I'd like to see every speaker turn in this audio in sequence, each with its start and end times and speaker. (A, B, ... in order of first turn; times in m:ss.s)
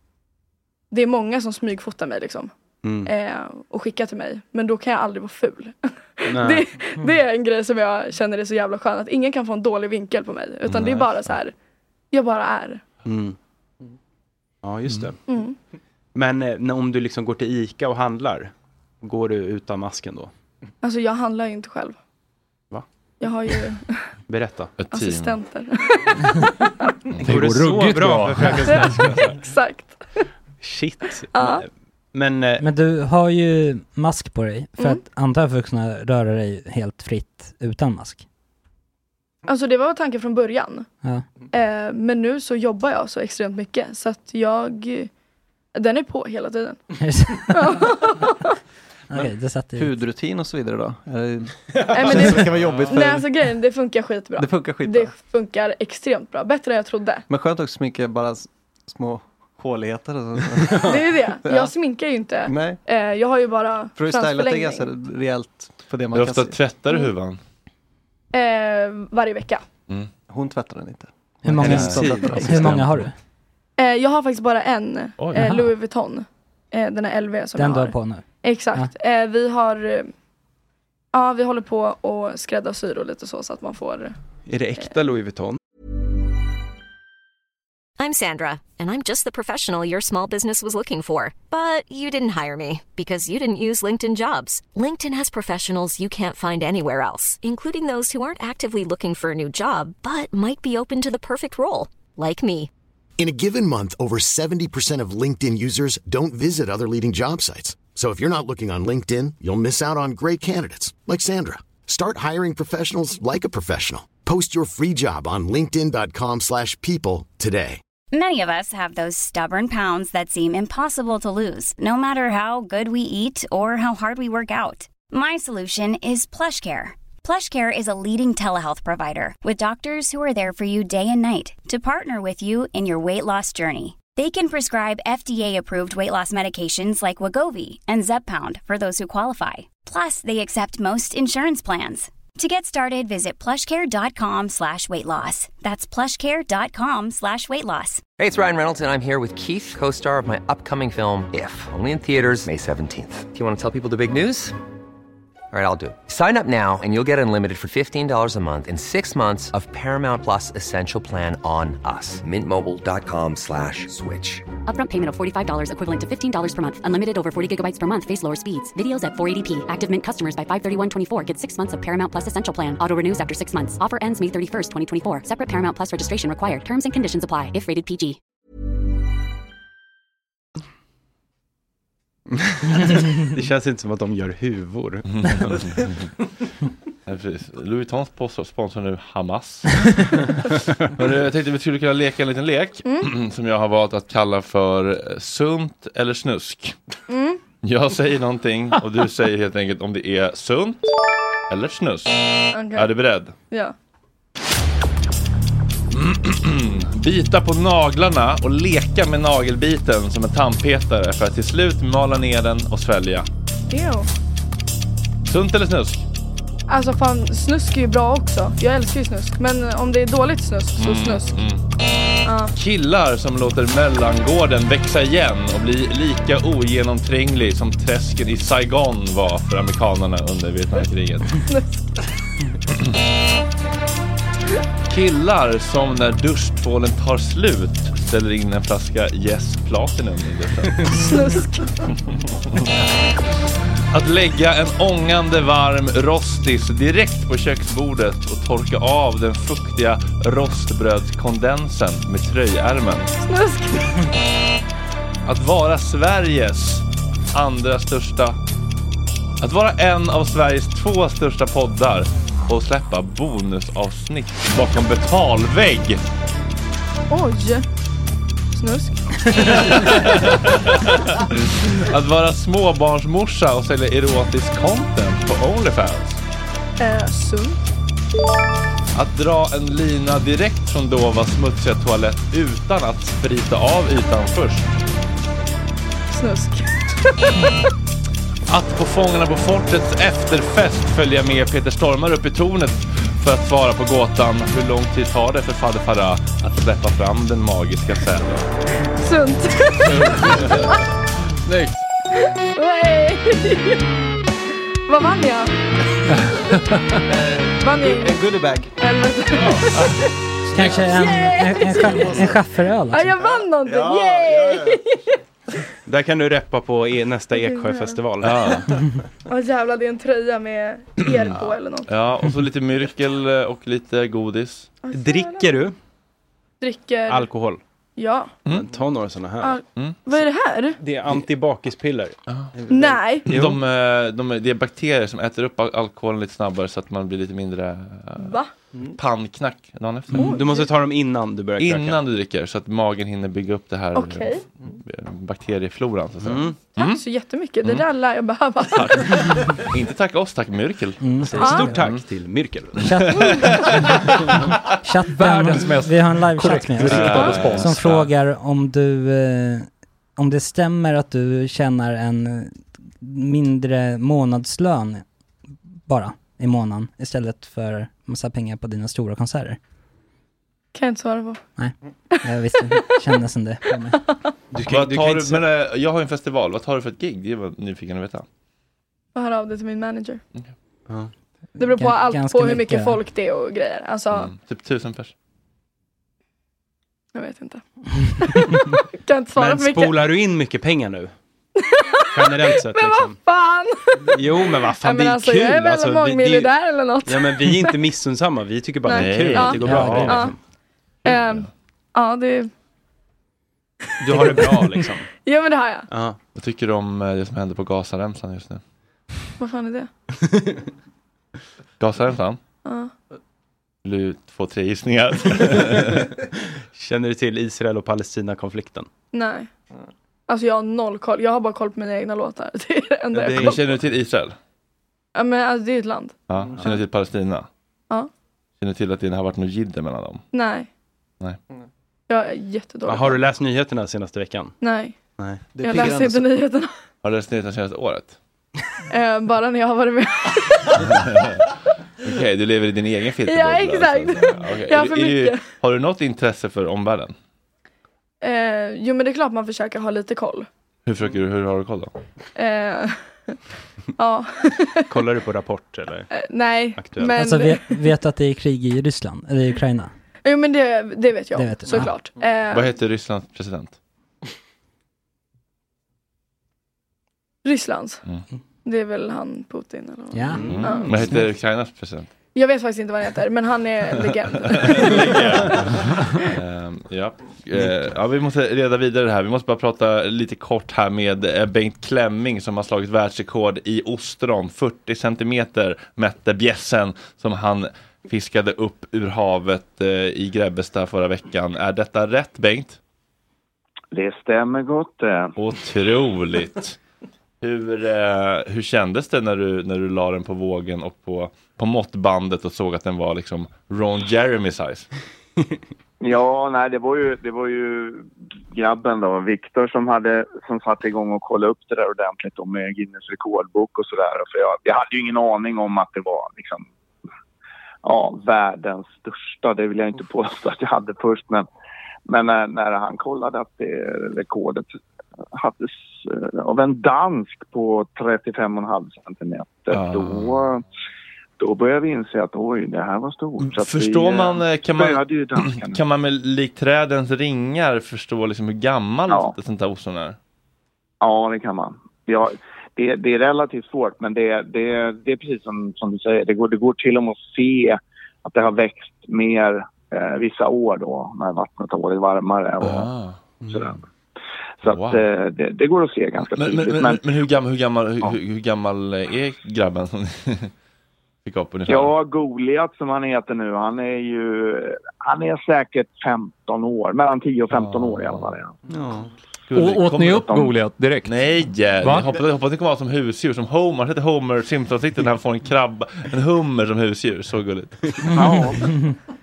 0:00.9-0:02.5 A
0:02.8-0:03.1 B
0:03.0-0:11.5 A
0:06.3-0:06.7 B
0:10.7-0:11.4 C
0:12.1-0:12.8 A
0:13.0-0:13.4 B
0:14.6-0:15.2 B
0:15.3-0:15.6 A
0:16.1-0:20.3 B
0:20.8-0:22.0 A
0:23.2-0:24.1 A
0:24.3-0:24.8 B
0:24.8-0:25.4 C
0:24.9-0:27.0 A
0:27.2-0:29.4 B
0:27.2-0:29.1 D
0:28.7-0:30.2 A
0:30.6-0:32.6 B
0:31.3-0:31.6 A
0:32.6-0:38.2 E
0:34.8-0:35.0 A
0:39.5-0:40.9 A
0:41.5-0:45.1 A
0:45.7-0:46.8 A
0:47.0-0:47.6 E
0:47.5-0:48.5 A
0:49.1-0:49.9 E
0:49.8-0:53.3 F
0:51.9-0:57.2 A
0:52.1-0:52.4 B
0:54.4-0:55.1 F
0:57.3-1:01.7 F
1:00.8-1:04.9 A
1:02.4-1:02.8 F
1:04.0-1:06.6 F
1:06.1-1:07.4 C
1:08.3-1:09.6 A
1:10.3-1:12.8 F
1:11.4-1:13.1 E
1:11.6-1:12.7 B
1:11.6-1:12.1 C
1:13.8-1:20.1 A
1:15.3-1:15.7 E
1:17.6-1:18.9 E
1:21.1-1:24.1 A
1:24.4-1:25.6 B
1:28.0-1:42.7 G
1:43.2-1:57.8 H
1:58.1-2:28.1 I
2:28.2-2:34.6 J
2:35.5-2:44.4 J
2:44.7-2:58.2 K
3:02.4-3:05.5 B
3:05.1-3:06.0 C
3:07.1-3:10.3 C
3:11.0-3:16.8 C
3:12.8-3:13.1 A
3:17.1-3:17.4 A
3:17.6-3:20.8 C
3:21.5-3:22.2 C
3:22.5-3:23.0 A
3:22.7-3:23.4 C
3:25.9-3:33.3 C
3:33.7-3:34.1 A
3:35.2-3:36.0 C
3:36.7-3:41.4 A
3:40.8-3:41.6 C
3:42.2-3:42.5 A
3:42.6-3:51.4 C
3:51.5-3:51.9 A
3:54.9-4:00.8 C
4:00.9-4:01.7 A
4:03.9-4:13.1 C
4:13.2-4:14.1 A
4:15.3-4:18.4 C
4:19.4-4:26.0 C
4:27.1-4:27.7 A
4:28.5-4:29.9 A
4:29.6-4:36.2 C
4:36.8-4:37.6 A
4:39.0-4:44.7 C
4:46.1-4:47.5 A
4:48.5-4:58.5 C
4:59.0-5:00.7 A
5:00.2-5:00.6 C
5:01.4-5:01.8 C
5:02.2-5:03.8 A
5:04.9-5:05.6 A
5:07.1-5:08.7 F
5:07.6-5:10.1 A
5:10.5-5:13.1 E
5:10.8-5:12.2 A
5:12.9-5:15.1 A
5:13.2-5:14.8 F
5:15.9-5:18.7 B
5:17.3-5:18.0 A
5:18.2-5:18.7 C
5:19.3-5:21.9 A
5:21.0-5:24.7 C
5:24.8-5:25.6 A
5:24.9-5:25.8 B
5:26.6-5:27.3 A
5:27.1-5:27.6 B
5:28.0-5:28.4 A
5:28.4-5:28.7 C
5:28.5-5:29.6 B
5:29.4-5:30.8 A
5:29.7-5:30.0 C
5:30.8-5:33.6 B
5:32.7-5:33.4 A
5:33.2-5:38.4 C
5:38.2-5:38.5 A
5:39.0-5:40.4 C
5:40.1-5:40.7 A
5:40.1-5:42.0 B
5:41.6-5:47.0 C
5:43.9-5:44.4 A
5:46.2-5:46.6 B
5:46.8-5:49.5 A
5:48.7-5:51.0 C
5:51.0-5:51.7 E
5:51.3-5:52.8 B
5:51.4-5:51.7 A
5:51.7-5:52.0 C
5:52.8-5:54.0 C
5:52.8-5:54.1 E
5:54.8-6:05.0 E
5:55.1-5:57.8 D
5:56.8-5:58.1 C
6:05.9-6:09.6 E
6:10.7-6:11.4 A
6:11.6-6:14.0 E
6:12.2-6:12.8 A
6:14.5-6:15.5 B
6:14.7-6:18.3 C
6:19.1-6:20.2 A
6:21.6-6:24.3 A
6:21.6-6:23.0 E
6:24.1-6:25.1 C
6:27.1-6:27.6 A
6:28.2-6:30.0 A
6:29.4-6:31.1 B
6:31.6-6:37.8 A
6:32.1-6:33.2 B
6:34.1-6:36.5 B
6:37.1-6:40.4 B
6:38.8-6:40.4 A
6:38.9-6:40.3 C
6:39.7-6:40.1 E
6:41.0-6:41.5 C
6:41.0-6:42.5 A
6:44.0-6:45.1 B
6:44.0-6:45.9 A
6:45.9-6:46.2 B
6:46.4-6:48.6 C
6:49.4-6:49.9 A
6:51.8-6:52.4 C
6:52.6-6:52.9 A
6:53.8-6:56.0 C
6:56.7-6:58.9 B
6:59.1-6:59.5 A
7:00.3-7:03.7 A
7:03.1-7:03.9 B
7:03.3-7:04.4 C
7:05.2-7:06.8 A
7:06.3-7:07.5 C
7:08.6-7:10.2 C
7:10.3-7:10.7 A
7:12.1-7:13.2 A
7:12.9-7:14.5 B
7:14.6-7:15.0 A
7:15.2-7:15.5 B
7:15.6-7:16.2 F
7:15.6-7:16.7 A
7:17.0-7:18.2 C
7:18.9-7:20.8 A
7:20.8-7:21.4 C
7:22.0-7:27.1 C
7:23.2-7:25.5 A
7:28.2-7:30.5 A
7:30.9-7:31.9 C
7:32.4-7:33.4 A
7:34.0-7:34.9 A
7:34.9-7:36.1 B
7:36.1-7:37.8 A
7:36.8-7:37.1 B
7:37.1-7:39.9 E
7:40.2-7:42.7 A
7:41.4-7:42.0 E
7:42.5-7:43.8 C
7:47.4-7:48.0 A
7:48.6-7:51.0 A
7:50.1-7:50.5 E
7:50.4-7:50.8 B
7:50.4-7:52.1 C
7:52.3-7:55.7 A
7:54.4-8:12.8 C
8:13.9-8:15.3 L
8:15.4-8:16.8 C
8:17.4-8:24.9 C
8:26.0-8:36.7 L
8:37.8-8:41.4 L
8:42.1-8:44.7 L
8:45.3-8:50.6 L
8:49.7-8:50.4 C
8:51.4-8:55.8 L
8:53.4-9:00.2 C
8:59.1-8:59.3 L
9:01.0-9:12.9 L
9:12.6-9:13.2 C
9:13.4-9:13.7 B
9:13.5-9:13.8 L
9:14.6-9:17.0 L
9:14.6-9:15.0 C
9:16.3-9:20.5 C
9:21.2-9:21.9 C
9:21.7-9:28.6 L
9:27.5-9:28.3 C
9:28.7-9:29.1 B
9:29.5-9:30.5 C
9:29.5-9:32.1 D
9:31.0-9:38.3 C
9:38.1-9:38.6 L